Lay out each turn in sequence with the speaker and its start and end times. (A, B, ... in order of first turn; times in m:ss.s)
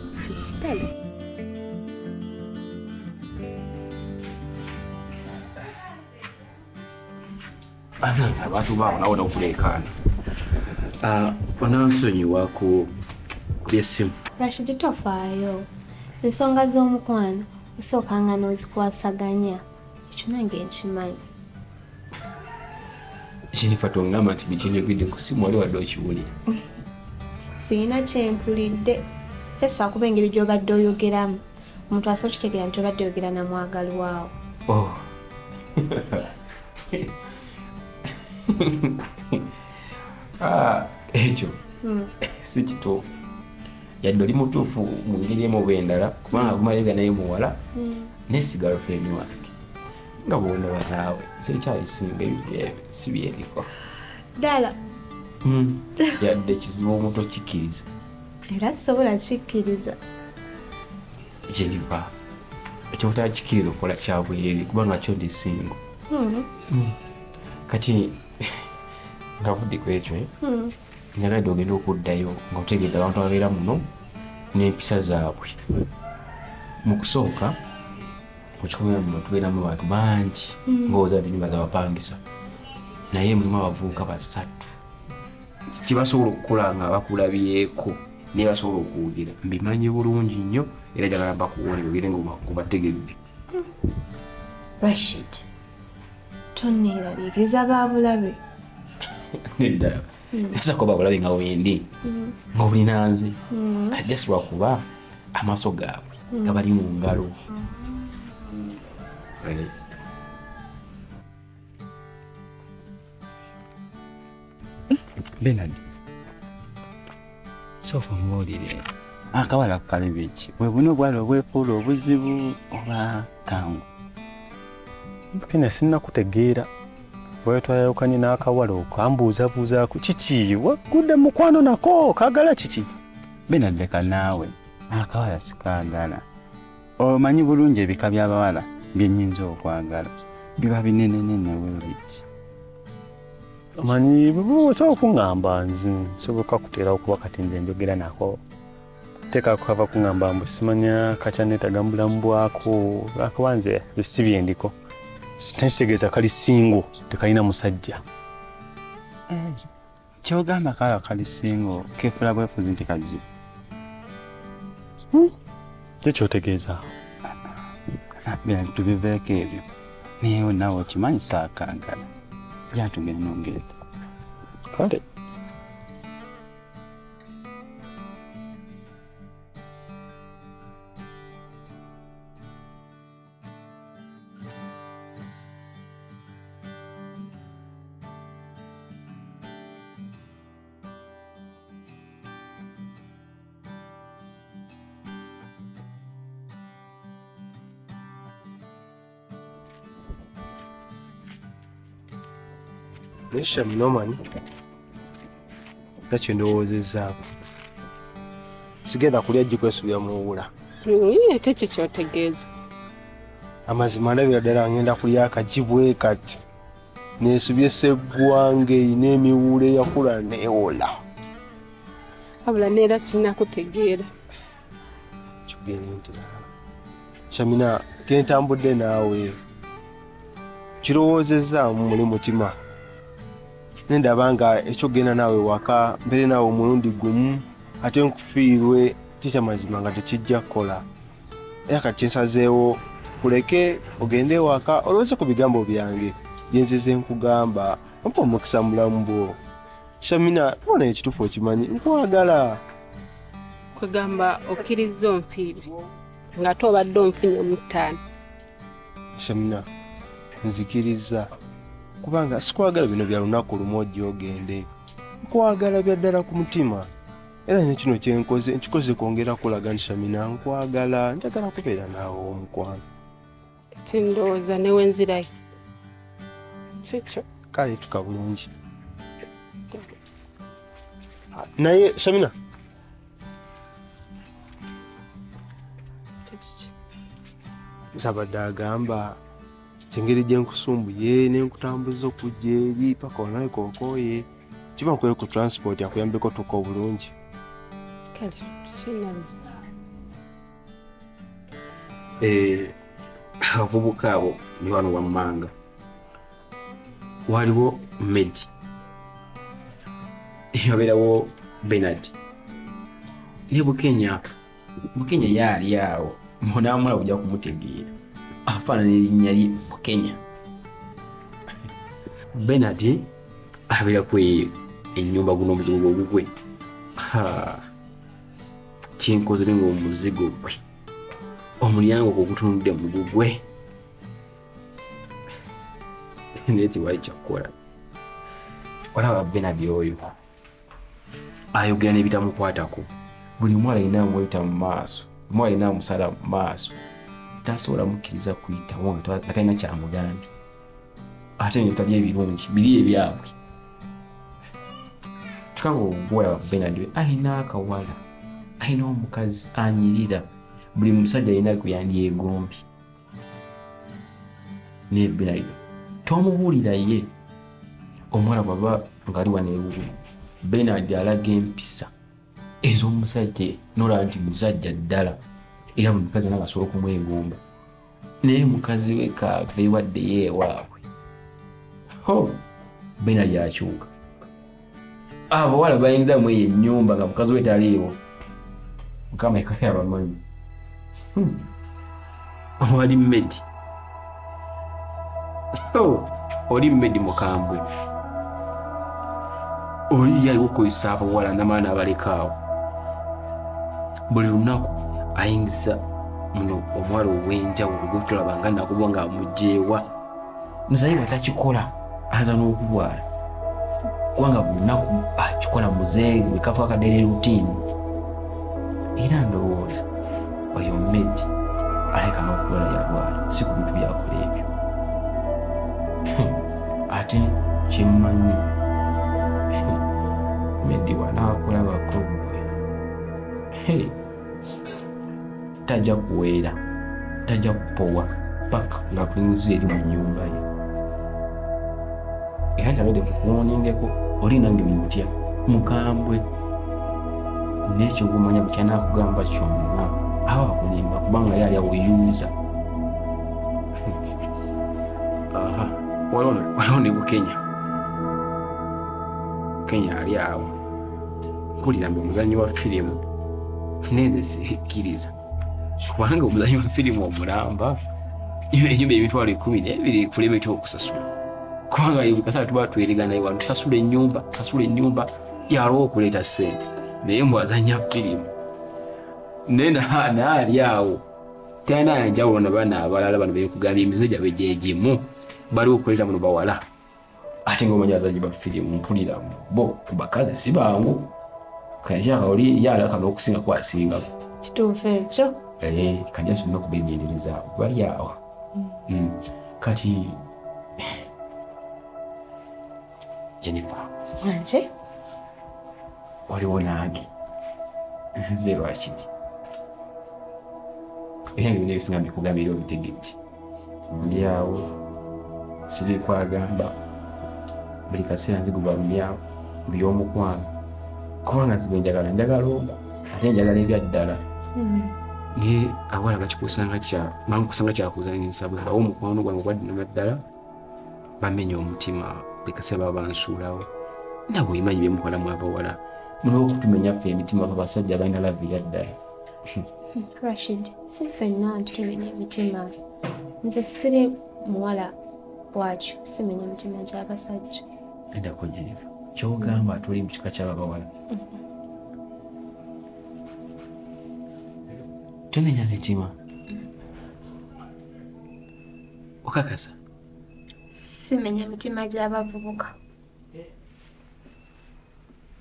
0:00.2-0:00.9 A
0:08.0-0:09.9 B
0:11.0-0:12.9 B
0:13.6-0:14.1 B
0:14.4-0:15.7 C
0:16.2-0:21.2 C
0:23.5-0:26.3 B
0:27.6-0:29.0 C
0:29.6-0:34.3 C
0:34.7-0:35.0 B
0:35.8-0:36.3 B
0:38.5-0:39.4 B
0:40.4-0:41.6 B
0:41.8-0:42.1 C
0:42.3-0:43.1 B
0:44.0-0:47.6 B
0:46.3-0:46.6 C
0:47.8-0:48.1 C
0:48.3-0:49.5 B
0:50.2-0:53.7 B
0:54.4-0:54.7 C
0:55.4-0:57.9 B
0:58.5-1:00.0 C
1:01.5-1:02.1 B
1:02.9-1:05.8 B
1:06.1-1:06.5 C
1:06.7-1:06.9 B
1:07.7-1:08.7 B
1:09.4-1:10.3 B
1:10.4-1:10.7 C
1:11.1-1:13.8 B
1:14.5-1:15.6 B
1:16.8-1:17.6 B
1:18.6-1:22.2 B
1:23.1-1:24.7 B
1:25.7-1:33.2 B
1:34.8-1:35.4 C
1:36.5-1:38.4 C
1:39.4-1:41.9 B
1:42.0-1:42.3 C
1:42.5-1:43.4 B
1:43.5-1:44.0 C
1:43.9-1:47.4 B
1:46.3-1:46.6 C
1:47.6-1:48.7 C
1:49.4-1:49.7 B
1:54.9-1:55.8 D
1:57.8-2:03.9 D
2:05.3-2:06.7 E
2:07.4-2:12.9 E
2:13.5-2:16.2 D
2:17.0-2:22.2 D
2:23.8-2:28.4 E
2:29.3-2:34.7 E
2:35.4-2:38.0 E
2:39.3-2:39.6 D
2:40.2-2:43.2 D
2:46.0-2:46.9 E
2:48.3-2:49.6 D
2:50.2-2:52.1 D
2:52.7-2:53.7 D
2:54.7-2:55.0 E
3:23.3-3:24.2 F
3:26.1-3:27.2 F
3:28.8-3:30.5 F
3:30.8-3:32.4 A
3:33.7-3:36.4 F
3:37.2-3:40.9 F
3:42.4-3:44.1 A
3:45.5-3:46.4 F
3:47.3-3:49.4 F
3:50.8-3:52.5 F
3:53.9-4:00.8 F
4:01.7-4:09.4 F
4:10.0-4:12.6 F
4:13.7-4:15.7 A
4:16.4-4:18.0 A
4:19.2-4:19.6 F
4:20.4-4:21.3 F
4:22.0-4:24.7 F
4:25.2-4:26.9 F
4:27.5-4:32.8 F
4:33.8-4:35.3 A
4:36.8-4:37.2 A
4:37.5-4:38.5 F
4:39.7-4:40.0 A
4:41.3-4:42.3 F
4:46.3-4:46.7 A
4:47.9-4:49.2 F
4:49.9-4:54.2 F
4:54.8-4:57.1 F
4:58.1-4:59.4 A
5:02.2-5:02.8 B
5:03.5-5:05.5 B
5:07.3-5:08.5 B
5:10.5-5:12.1 B
5:13.5-5:14.3 B
5:14.9-5:17.9 B
5:18.4-5:20.2 B
5:22.3-5:23.1 B
5:23.7-5:26.3 B
5:27.0-5:27.6 B
5:29.0-5:30.6 B
5:31.6-5:33.4 B
5:36.4-5:37.5 B
5:38.9-5:40.1 B
5:41.5-5:46.8 B
5:47.4-5:50.3 B
5:51.4-5:53.3 B
5:55.5-5:58.0 B
5:58.6-6:02.6 B
6:04.9-6:07.1 B
6:08.1-6:11.9 B
6:12.6-6:15.2 B
6:15.8-6:17.4 B
6:18.2-6:20.7 B
6:22.0-6:22.4 B
6:23.0-6:23.9 B
6:25.3-6:28.0 B
6:29.1-6:30.2 B
6:31.2-6:31.4 B
6:32.6-6:33.4 B
6:35.7-6:37.6 B
6:39.9-6:42.4 B
6:44.1-6:45.8 B
6:46.3-6:49.9 B
6:50.7-6:53.0 B
6:54.1-6:57.6 B
6:59.0-6:59.8 B
7:00.5-7:01.3 B
7:01.9-7:04.5 B
7:06.1-7:06.4 B
7:06.9-7:08.5 B
7:10.6-7:12.5 B
7:13.6-7:14.0 B
7:15.6-7:16.6 B
7:17.2-7:20.4 B
7:22.6-7:26.2 B
7:27.6-7:32.3 B
7:35.3-7:37.4 B
7:39.6-7:40.6 B
7:41.6-7:43.0 B
7:43.9-7:45.1 B
7:45.8-7:47.8 B
7:48.5-7:51.1 B
7:51.7-7:58.3 B
7:59.5-8:01.0 B
8:01.6-8:06.6 B
8:07.4-8:11.1 B
8:11.8-8:14.1 B
8:14.4-8:15.4 C
8:15.6-8:18.2 B
8:18.9-8:20.2 B
8:23.4-8:23.9 B
8:24.2-8:24.7 C
8:26.3-8:27.1 B
8:28.3-8:29.1 B
8:31.3-8:33.2 B
8:33.9-8:34.7 B
8:35.7-8:36.7 B
8:37.9-8:40.5 B
8:41.2-8:44.2 B
8:44.6-8:44.9 C
8:45.3-8:50.2 B
8:51.2-8:53.7 B
8:54.3-8:59.0 B
9:00.0-9:02.7 C
9:03.4-9:04.9 C
9:05.5-9:07.6 C
9:08.1-9:10.9 B
9:15.3-9:16.1 B
9:19.2-9:19.7 B
9:20.7-9:22.7 C